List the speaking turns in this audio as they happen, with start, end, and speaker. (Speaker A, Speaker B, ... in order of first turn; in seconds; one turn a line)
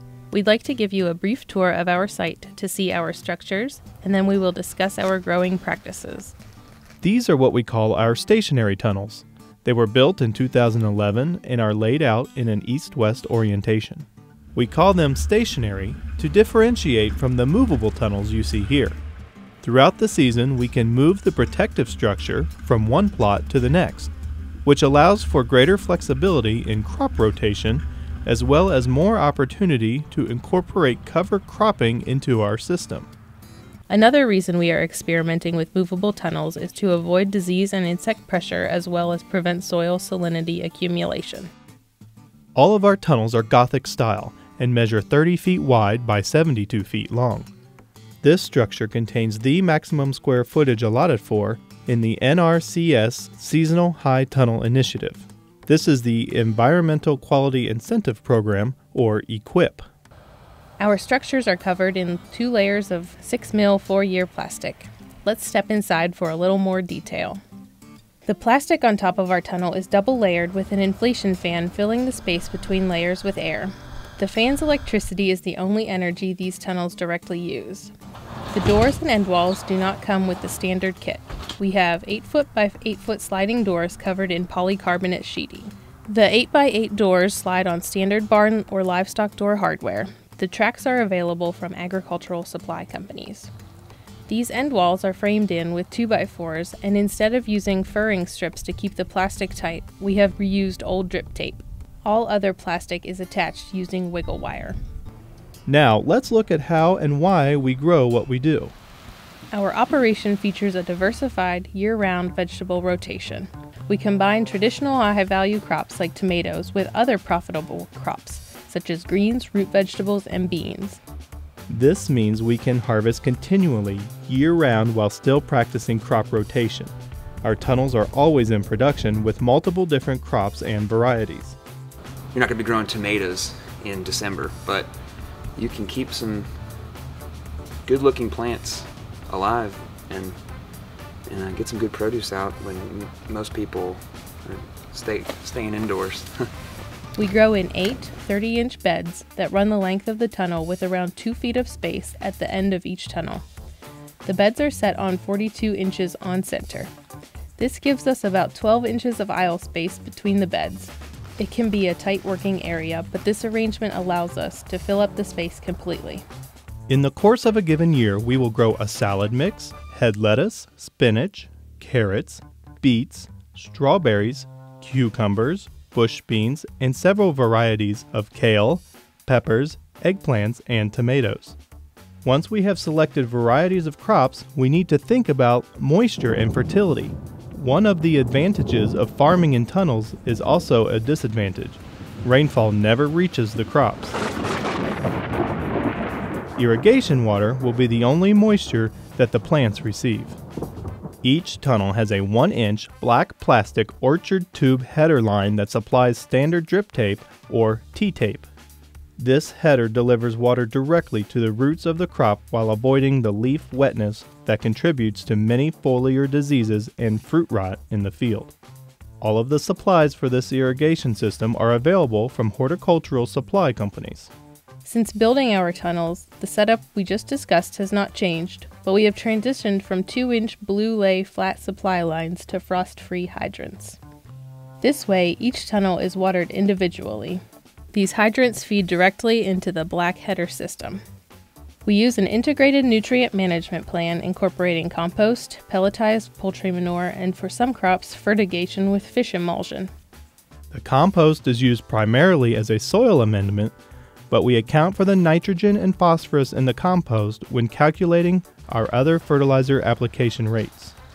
Speaker A: 0.3-6.4
Speaker B: 7.0-19.0
Speaker B: 19.6-24.1
Speaker B: 24.6-33.1
Speaker A: 33.9-41.5
Speaker B: 42.5-47.5
Speaker B: 48.2-59.9
Speaker A: 60.8-67.4
Speaker A: 68.2-77.9
Speaker A: 78.5-93.5
Speaker A: 94.3-104.8
Speaker B: 105.7-108.7
Speaker A: 109.5-121.0
Speaker B: 121.7-131.6
Speaker C: 132.3-134.9
Speaker C: 135.6-136.5
Speaker C: 137.8-140.4
Speaker C: 141.3-146.5
Speaker A: 147.2-153.5
Speaker A: 154.2-156.9
Speaker A: 157.6-166.2
Speaker B: 166.9-181.6
Speaker B: 182.2-194.2
Speaker B: 196.6-200.4
Speaker B: 201.2-208.5
Speaker B: 209.2-218.6
Speaker B: 219.2-224.3
Speaker A: 224.8-234.0
Speaker A: 234.8-237.4
Speaker A: 237.9-241.0
Speaker A: 241.8-249.9
Speaker B: 250.7-253.8
Speaker B: 254.3-260.9